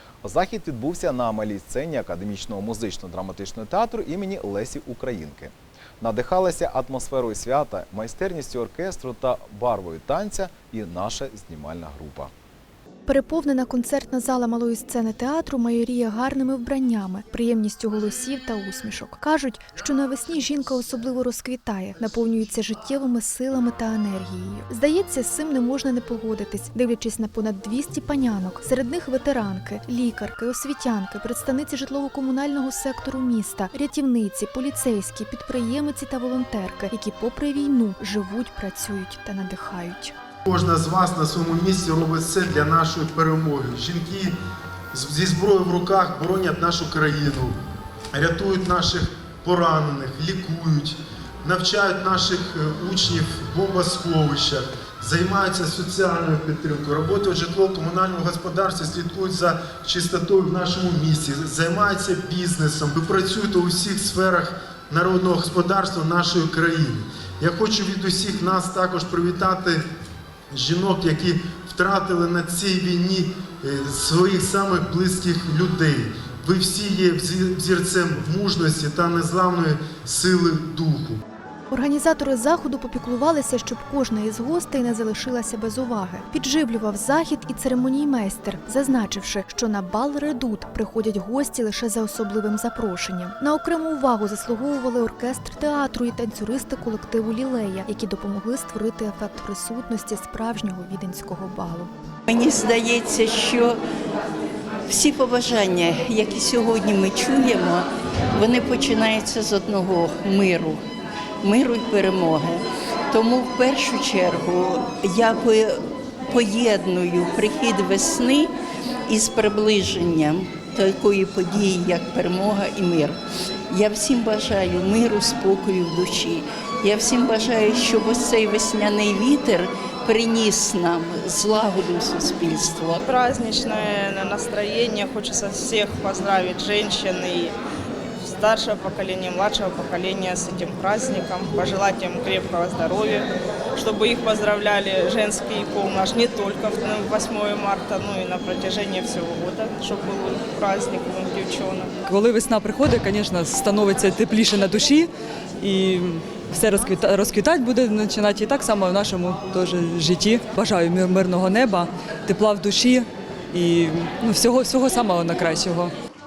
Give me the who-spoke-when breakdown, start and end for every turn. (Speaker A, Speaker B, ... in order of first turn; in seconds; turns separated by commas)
Speaker A: 0.2-12.3, Speaker B: 13.1-40.1, Speaker C: 40.5-44.4, Speaker C: 44.9-47.6, Speaker C: 48.1-69.8, Speaker C: 70.5-81.2, Speaker B: 81.7-101.9, Speaker D: 102.3-103.8, Speaker D: 104.9-110.8, Speaker D: 111.4-118.5, Speaker D: 119.1-123.2, Speaker D: 123.7-133.0, Speaker E: 133.0-137.6, Speaker E: 138.2-151.9, Speaker F: 152.1-155.1, Speaker F: 155.6-165.9